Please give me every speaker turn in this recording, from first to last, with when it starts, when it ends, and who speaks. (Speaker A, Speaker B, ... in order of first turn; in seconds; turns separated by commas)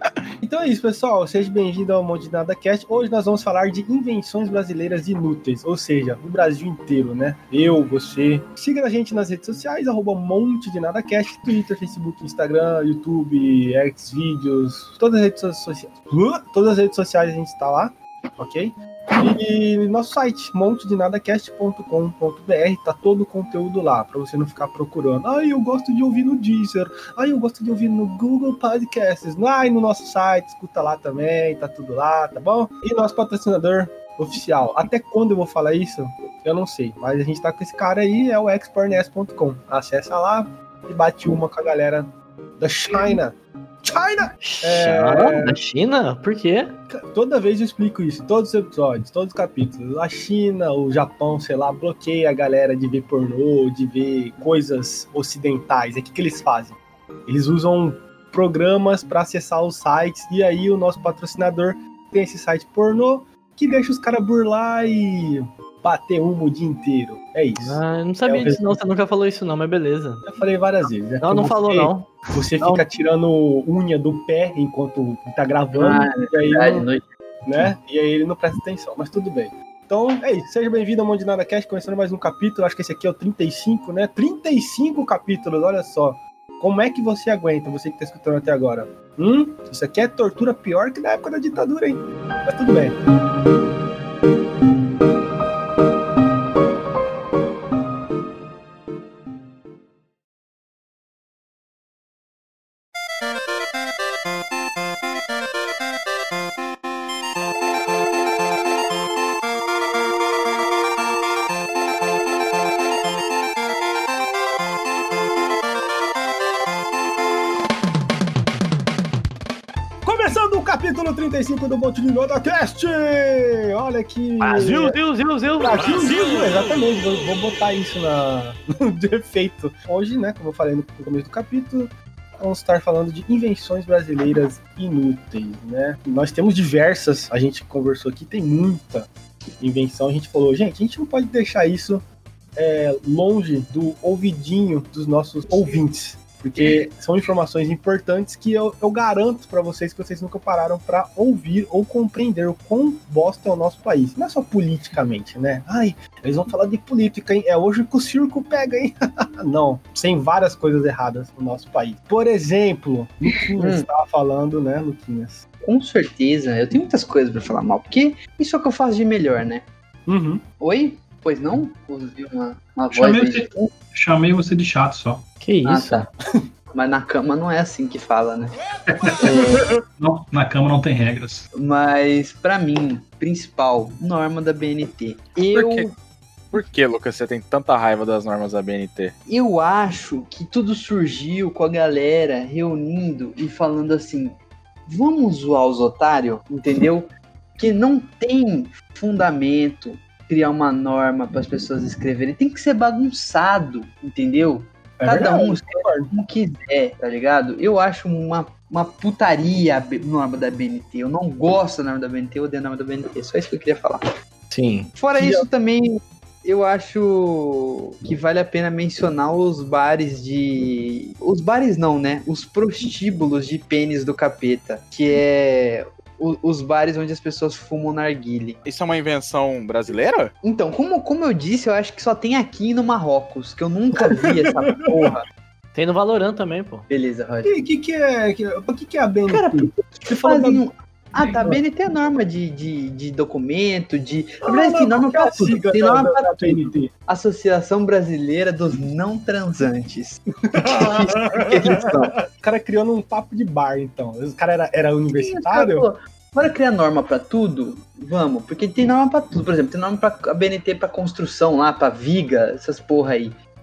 Speaker A: 0.4-45.6, Speaker B: 44.4-46.7, Speaker A: 46.9-68.8, Speaker B: 67.6-70.2, Speaker A: 70.2-76.9, Speaker B: 71.2-72.8, Speaker C: 75.7-77.0, Speaker A: 77.4-93.0, Speaker A: 120.0-125.0, Speaker B: 124.4-126.2, Speaker A: 125.6-165.4, Speaker C: 163.6-163.8, Speaker C: 165.6-169.6, Speaker A: 170.1-170.4, Speaker C: 170.6-173.7, Speaker D: 172.9-175.2, Speaker B: 175.4-176.1, Speaker C: 175.6-176.1, Speaker C: 176.7-178.6, Speaker D: 178.9-179.2, Speaker B: 179.2-179.5, Speaker A: 179.3-179.7, Speaker D: 180.0-181.4, Speaker C: 181.5-185.9, Speaker E: 185.5-185.9, Speaker E: 186.5-189.1, Speaker C: 189.3-214.0, Speaker A: 205.0-206.1, Speaker B: 214.5-214.9, Speaker C: 214.9-228.6, Speaker A: 215.1-215.5, Speaker E: 228.6-230.3, Speaker C: 230.4-235.2, Speaker A: 233.9-234.5, Speaker B: 235.7-236.9, Speaker C: 236.9-237.6, Speaker A: 237.4-240.6, Speaker C: 239.3-252.2, Speaker A: 241.2-241.6, Speaker A: 244.4-246.9, Speaker A: 250.5-255.8, Speaker C: 255.1-263.4